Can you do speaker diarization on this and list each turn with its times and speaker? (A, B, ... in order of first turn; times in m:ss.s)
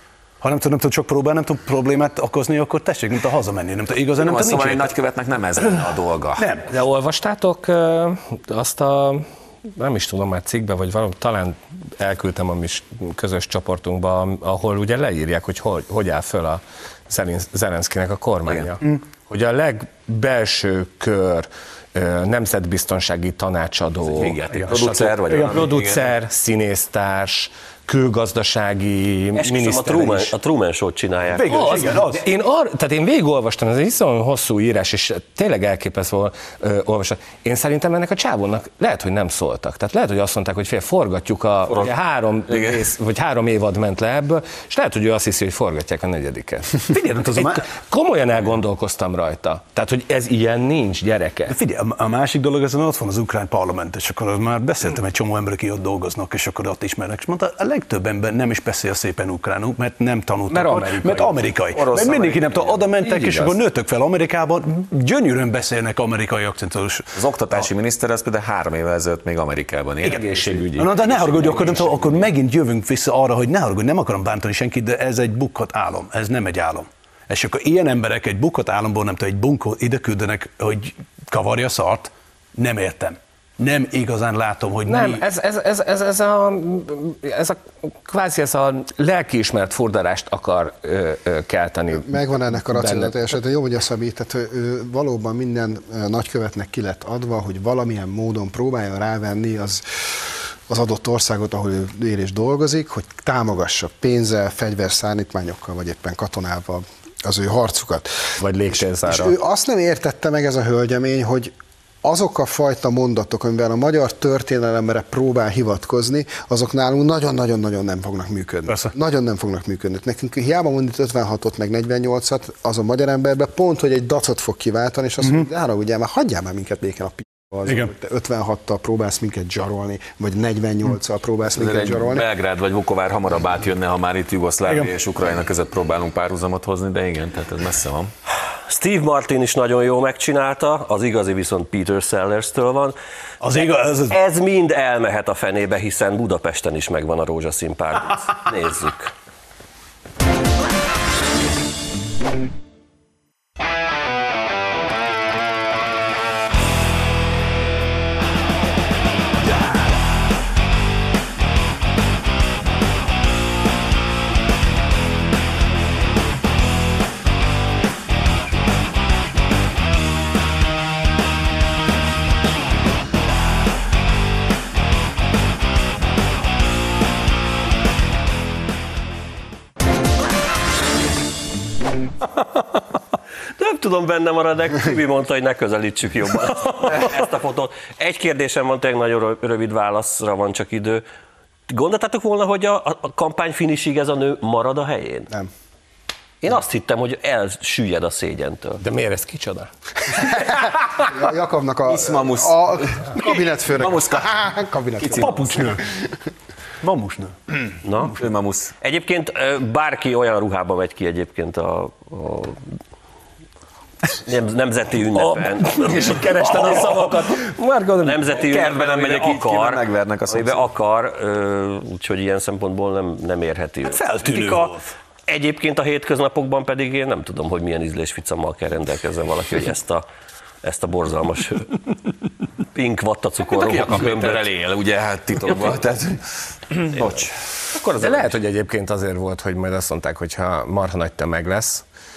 0:00.4-0:04.9 A
0:04.2-0:06.5 B
0:05.6-0:06.7 A
0:06.7-0:30.3 C
0:18.4-0:18.7 B
0:24.0-0:26.1 B
0:24.7-0:25.6 A
0:29.4-0:31.5 D
0:31.3-0:32.2 A
0:31.5-0:51.6 C
0:41.7-0:41.9 B
0:42.5-0:42.8 B
0:46.8-0:47.7 A
0:51.5-1:07.6 A
1:00.5-1:01.4 C
1:01.7-1:02.9 B
1:03.0-1:03.5 C
1:07.1-1:12.3 B
1:10.0-1:25.2 A
1:24.8-1:32.2 C
1:31.9-2:12.3 E
1:32.7-1:33.1 C
1:48.4-1:49.4 C
2:11.5-2:18.1 B
2:14.6-2:14.9 A
2:18.6-2:22.9 D
2:23.4-2:24.2 A
2:23.6-2:29.1 D
3:03.6-3:11.0 D
3:11.7-3:15.3 D
3:16.4-3:18.8 D
3:18.8-3:19.7 C
3:20.1-3:26.1 E
3:21.9-3:24.4 B
3:25.0-3:25.8 B
3:25.2-3:25.8 A
3:26.8-3:27.4 A
3:27.8-3:28.2 D
3:28.1-3:28.7 B
3:28.8-3:32.8 D
3:34.2-3:36.9 D
3:35.1-3:38.2 C
3:38.0-3:44.0 D
3:38.3-3:40.6 B
3:43.8-3:44.9 A
3:44.2-3:44.7 C
3:45.3-3:50.0 D
3:50.6-3:51.9 D
3:52.7-3:54.5 D
3:53.4-3:57.4 B
3:57.7-3:58.3 D
3:58.0-4:01.8 C